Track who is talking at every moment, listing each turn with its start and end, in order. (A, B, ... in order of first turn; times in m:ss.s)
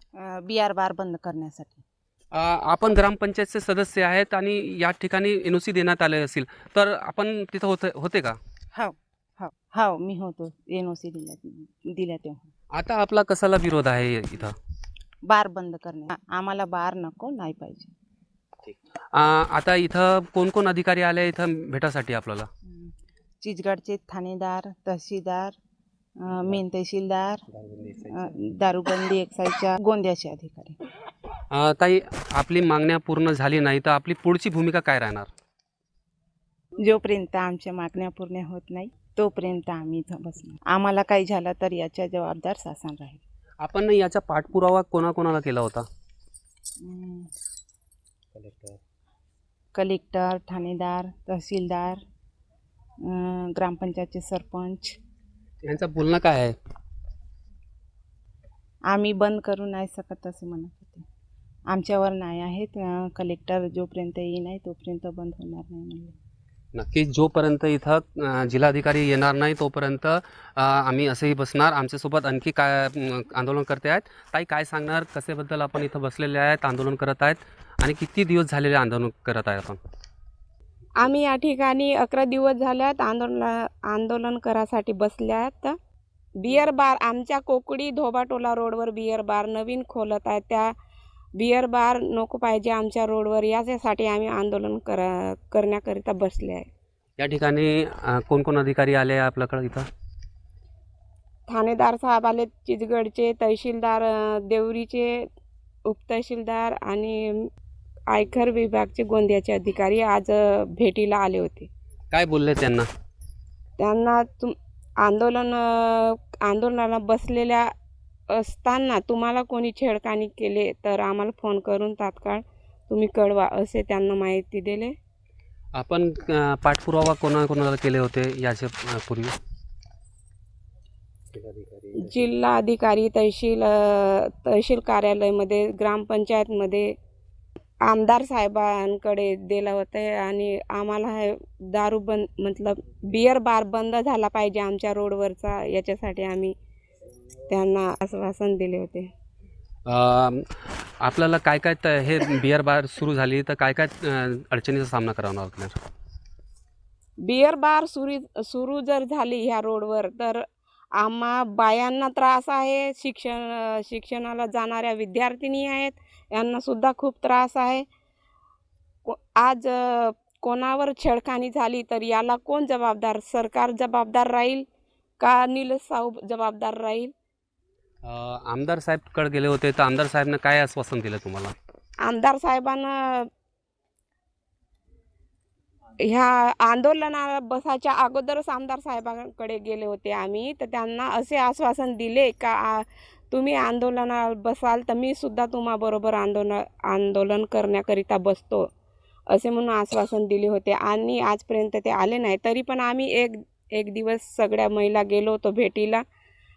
0:00.2-0:01.8 A
0:02.3-0:08.4 B
0:08.7-0:12.5 A
0:12.7-0:14.6 B
0:15.2-0:17.9 A
0:19.1-0:22.5 B
0:22.7-0:25.6 A
0:26.2-0:27.4 A
0:27.5-0:28.1 B
0:28.0-0:30.8 A
0:31.5-0:35.3 B
0:36.8-0:43.2 A
0:43.6-0:45.8 B
0:46.8-0:47.3 A
0:48.3-0:48.8 B
0:49.7-0:52.0 A
0:53.0-0:55.0 A
0:55.6-0:56.5 B
0:58.9-1:01.0 A
1:01.7-1:06.2 A
1:06.7-1:19.8 B
1:21.0-1:25.7 C
1:26.4-1:30.7 C
1:31.4-1:36.7 C
1:37.2-1:39.8 B
1:41.5-1:45.2 C
1:45.8-1:47.5 C
1:48.1-1:51.7 C
1:52.1-1:52.9 B
1:53.8-1:57.7 C
1:58.3-2:04.9 C
2:05.7-2:09.3 B
2:11.3-2:12.2 B
2:12.0-2:16.9 C
2:17.9-2:26.5 C
2:27.5-2:29.1 C
2:29.8-2:30.4 B
2:31.0-2:35.7 B
2:37.2-2:40.4 C
2:41.0-2:47.8 C
2:49.0-2:54.6 C
2:55.2-2:57.1 C
2:58.0-3:01.5 B
3:02.0-3:03.3 C
3:06.1-3:18.6 C
3:19.3-3:26.0 C